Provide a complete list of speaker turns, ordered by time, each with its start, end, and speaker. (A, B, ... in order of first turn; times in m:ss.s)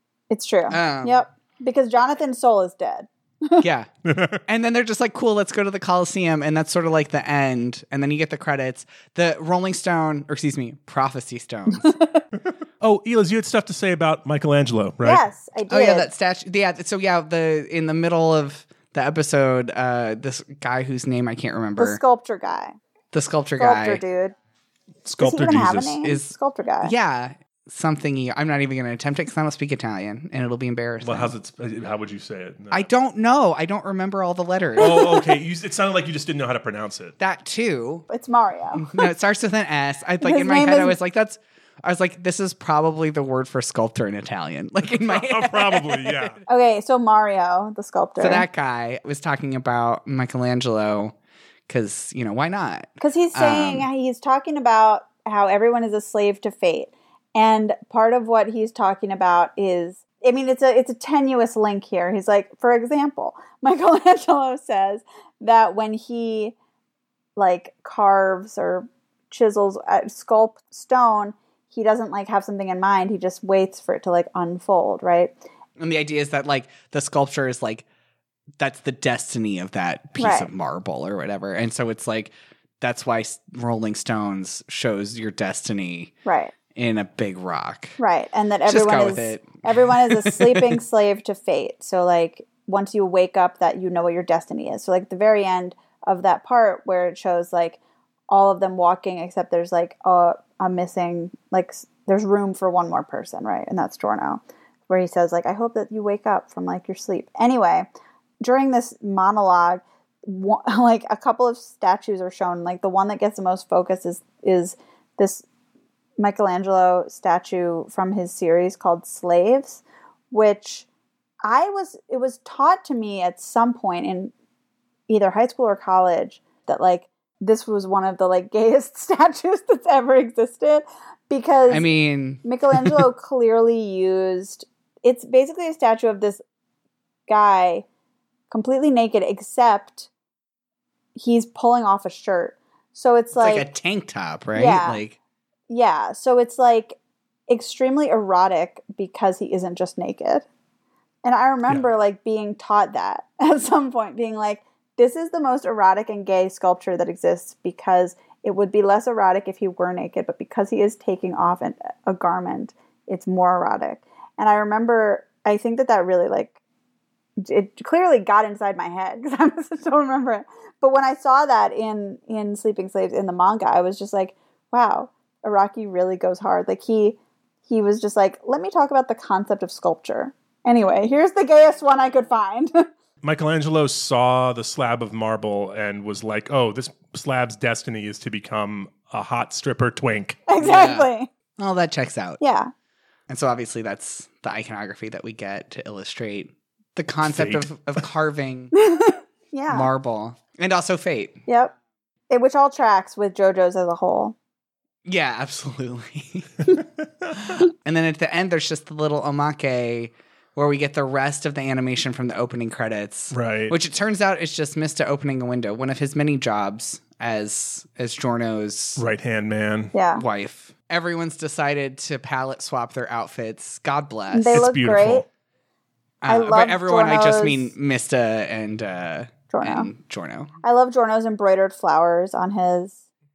0:00.3-0:03.6 A
0:00.7-0:01.2 B
0:03.6-0:03.9 B
0:04.0-0:04.4 C
0:04.5-0:11.9 B
0:11.8-0:12.2 A
0:12.8-0:15.2 C
0:15.0-0:16.1 A
0:15.7-0:22.0 B
0:21.8-0:22.8 A
0:23.1-0:24.0 B
0:23.6-0:24.4 A
0:25.0-0:26.0 C
0:25.2-0:26.9 A
0:26.0-0:31.3 B
0:31.0-0:32.9 C
0:32.7-0:35.1 B
0:34.8-0:37.2 C
0:37.2-0:38.0 B
0:38.1-0:39.1 A
0:38.8-0:46.3 B
0:40.2-0:41.0 A
0:45.0-0:46.4 C
0:46.5-0:48.5 A
0:48.2-0:51.2 B
0:51.7-0:53.9 B
0:53.0-1:06.6 A
1:07.4-1:15.4 A
1:15.8-1:17.8 B
1:18.6-1:26.1 B
1:20.2-1:20.5 A
1:26.2-1:26.5 A
1:26.7-1:28.0 B
1:28.0-1:47.9 A
1:28.7-1:30.8 B
1:48.4-1:55.4 A
1:56.2-2:00.9 A
2:01.4-2:04.3 A
2:05.1-2:11.9 A
2:11.7-2:13.0 B
2:12.4-2:16.4 A
2:17.3-2:17.9 A
2:18.5-2:20.1 A
2:21.2-2:23.7 A
2:23.4-2:25.2 B
2:24.6-2:25.0 A
2:25.7-2:30.5 A
2:31.2-2:46.6 A
2:47.4-3:02.9 A
3:03.2-3:10.5 C
3:10.5-3:11.3 A
3:10.6-3:12.4 B
3:12.4-3:12.7 A
3:13.3-3:18.7 B
3:17.2-3:17.7 C
3:18.7-3:19.9 A
3:19.7-3:21.4 B
3:21.5-3:21.7 A
3:22.3-3:24.4 A
3:25.0-3:26.6 B
3:27.4-3:39.0 B
3:33.3-3:33.8 C
3:39.0-3:39.9 C
3:39.9-3:40.2 A
3:40.2-3:44.6 B
3:44.3-3:45.3 A
3:44.5-3:45.2 C
3:46.2-3:50.5 B
3:46.3-3:47.7 A
3:49.5-3:49.9 A
3:50.6-3:53.0 A